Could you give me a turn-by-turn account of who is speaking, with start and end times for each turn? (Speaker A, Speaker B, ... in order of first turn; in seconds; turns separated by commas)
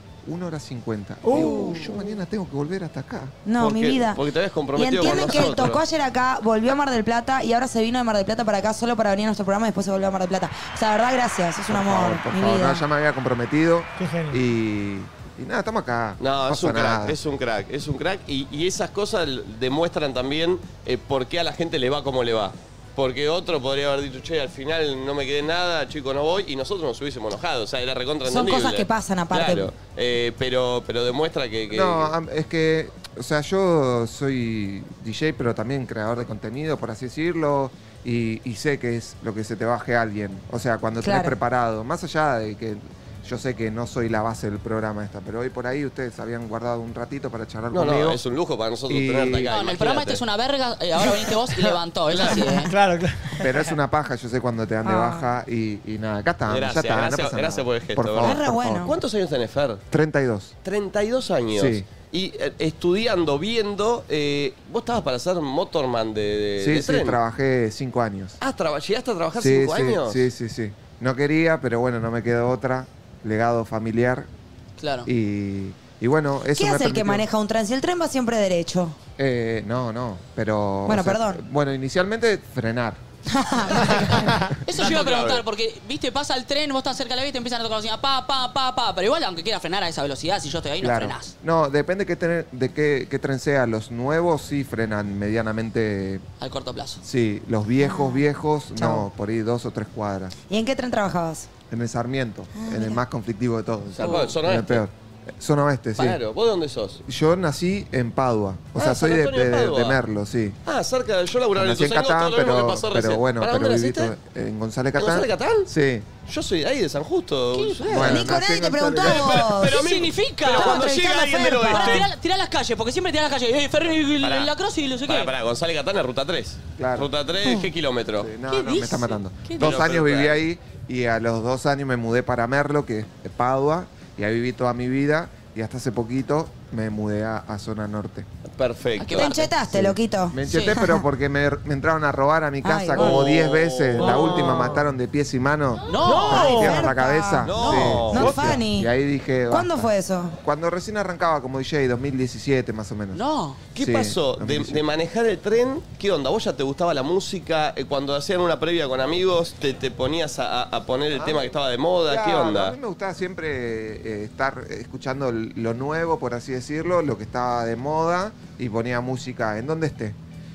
Speaker A: 0.2-3.4, Speaker B: 1.2-1.9, Speaker C: 1.3-1.9, Speaker C: 3.4-12.8, Speaker D: 3.6-5.8, Speaker A: 5.0-5.5, Speaker A: 11.7-17.2, Speaker B: 14.0-14.4, Speaker D: 16.2-32.1, Speaker C: 28.2-29.7, Speaker A: 31.7-48.2, Speaker C: 41.0-41.4, Speaker D: 47.7-50.2, Speaker A: 48.9-49.5, Speaker E: 49.5-52.7, Speaker D: 52.1-52.5, Speaker B: 52.3-53.8, Speaker A: 53.4-59.0, Speaker C: 54.8-55.3, Speaker D: 56.5-59.8, Speaker C: 58.2-58.9, Speaker A: 59.9-60.5, Speaker D: 60.6-67.2, Speaker A: 61.5-61.9, Speaker A: 66.6-68.4, Speaker D: 68.4-70.3, Speaker A: 69.3-74.3, Speaker E: 74.8-75.1, Speaker A: 75.0-77.2, Speaker C: 76.5-79.0, Speaker A: 79.2-83.0, Speaker C: 80.8-81.4, Speaker C: 83.3-84.4, Speaker A: 83.8-84.6, Speaker E: 84.6-91.3, Speaker D: 84.7-85.4, Speaker A: 90.8-96.2, Speaker E: 96.4-97.0, Speaker A: 97.0-100.3, Speaker C: 97.8-99.1, Speaker C: 100.5-101.5, Speaker A: 101.7-106.2, Speaker C: 102.5-103.0, Speaker D: 104.0-104.8, Speaker E: 104.0-104.3, Speaker D: 106.0-107.0, Speaker A: 107.0-110.6, Speaker D: 108.8-110.0, Speaker D: 110.7-114.1, Speaker A: 111.5-116.1, Speaker D: 115.0-115.7, Speaker D: 116.3-118.4, Speaker E: 117.5-118.1, Speaker A: 117.9-119.2, Speaker C: 118.0-119.8, Speaker D: 118.9-122.1, Speaker E: 119.3-120.9, Speaker C: 120.5-122.1, Speaker E: 121.6-125.3, Speaker D: 124.2-124.5, Speaker D: 125.0-128.3, Speaker A: 126.8-127.1, Speaker A: 128.2-138.3, Speaker E: 128.5-129.7, Speaker D: 129.6-130.4, Speaker D: 138.4-139.3, Speaker E: 139.0-139.4, Speaker C: 139.1-141.0, Speaker A: 139.7-149.9, Speaker C: 142.6-143.2, Speaker D: 142.9-144.8, Speaker B: 144.1-144.8, Speaker E: 145.9-146.8, Speaker D: 146.0-146.8, Speaker C: 146.1-148.9, Speaker D: 147.4-148.6, Speaker E: 147.6-148.0, Speaker C: 149.5-150.4, Speaker A: 150.4-153.2, Speaker E: 153.1-153.6, Speaker D: 153.7-162.8, Speaker A: 153.8-154.8, Speaker A: 161.1-161.4, Speaker A: 162.1-170.2